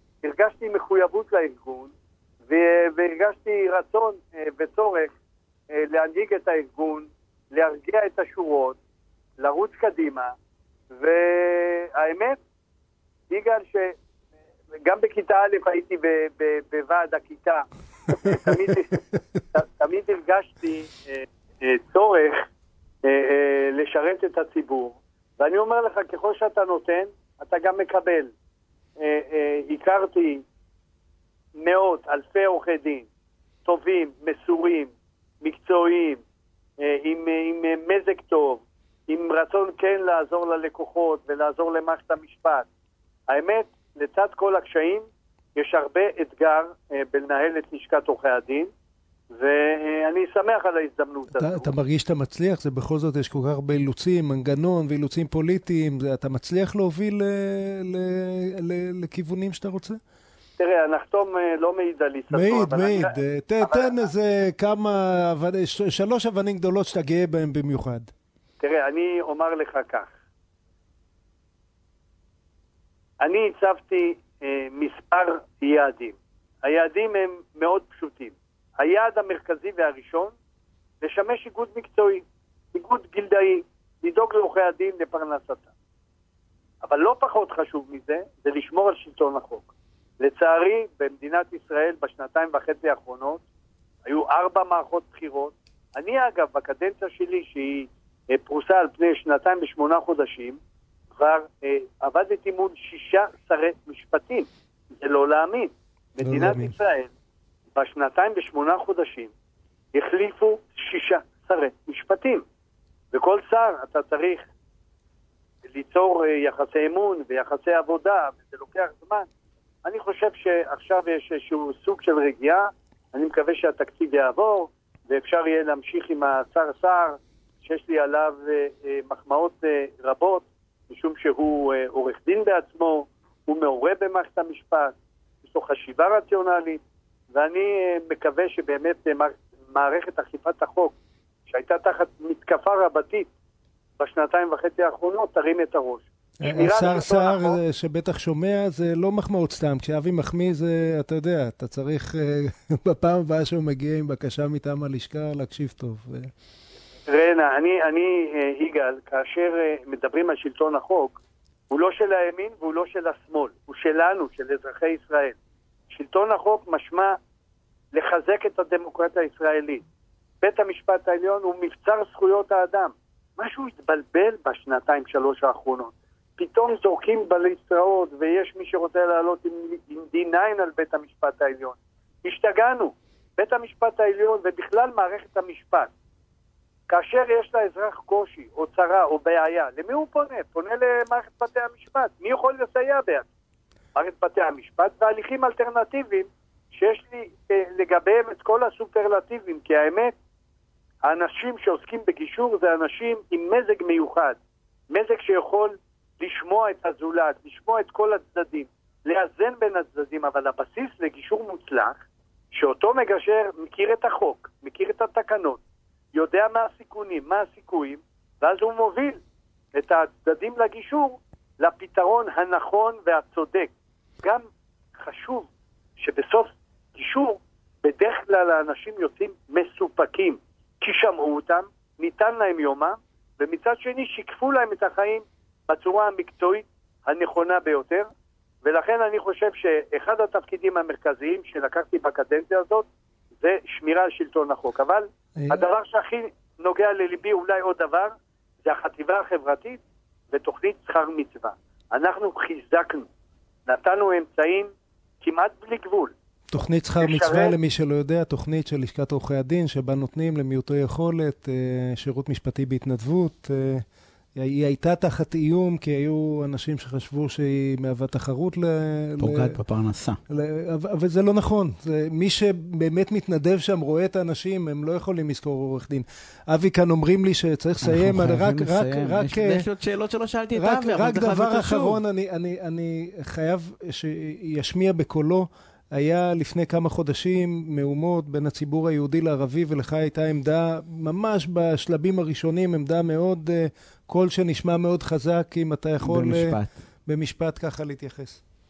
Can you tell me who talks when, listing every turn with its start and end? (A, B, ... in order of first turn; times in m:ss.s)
0:00.2-0:01.9 A
0:02.5-0:05.1 A
0:05.7-0:08.8 A
0:09.4-0:10.3 A
0:10.9-0:12.4 A
0:13.3-0:14.0 A
0:14.8-0:22.4 A
0:18.4-0:18.7 B
0:23.0-0:28.3 A
0:29.0-0:30.4 A
0:31.6-0:33.1 A
0:33.6-0:36.2 A
0:36.8-0:42.7 A
0:43.3-0:45.0 A
0:45.6-0:48.7 A
0:49.3-0:51.7 A
0:51.4-1:00.0 B
1:00.6-1:04.1 A
1:02.3-1:08.1 B
1:08.6-1:10.1 A
1:13.2-1:20.3 A
1:21.0-1:22.2 A
1:22.7-1:25.7 A
1:26.8-1:33.4 A
1:34.0-1:40.6 A
1:41.2-1:47.1 A
1:46.2-1:46.8 B
1:47.8-1:49.3 A
1:49.9-1:52.4 A
1:53.1-1:54.5 A
1:55.6-1:59.3 A
1:59.8-2:14.9 A
2:15.4-2:16.8 A
2:17.3-2:20.9 A
2:21.5-2:23.3 A
2:24.0-2:27.6 A
2:26.4-2:36.3 B
2:37.1-2:41.2 A
2:41.7-2:45.4 A
2:45.9-2:47.1 A
2:47.9-2:49.8 A
2:50.4-3:05.9 A
3:06.9-3:13.3 A
3:14.0-3:20.1 A
3:21.0-3:24.4 A
3:24.9-3:32.0 A
3:32.5-3:35.6 A
3:36.1-3:39.2 A
3:39.8-3:43.7 A
3:45.0-3:45.5 A
3:46.0-3:58.1 A
3:58.6-4:02.8 A
4:03.4-4:08.1 A
4:05.4-4:05.6 B
4:08.6-4:13.1 A
4:13.7-4:14.7 A
4:15.2-4:16.1 A
4:16.5-4:23.8 B
4:17.0-4:17.6 A
4:24.4-4:29.6 B
4:29.2-4:30.2 C
4:30.3-4:39.7 B
4:37.8-4:42.0 C
4:40.6-4:58.4 B
4:56.0-4:56.7 C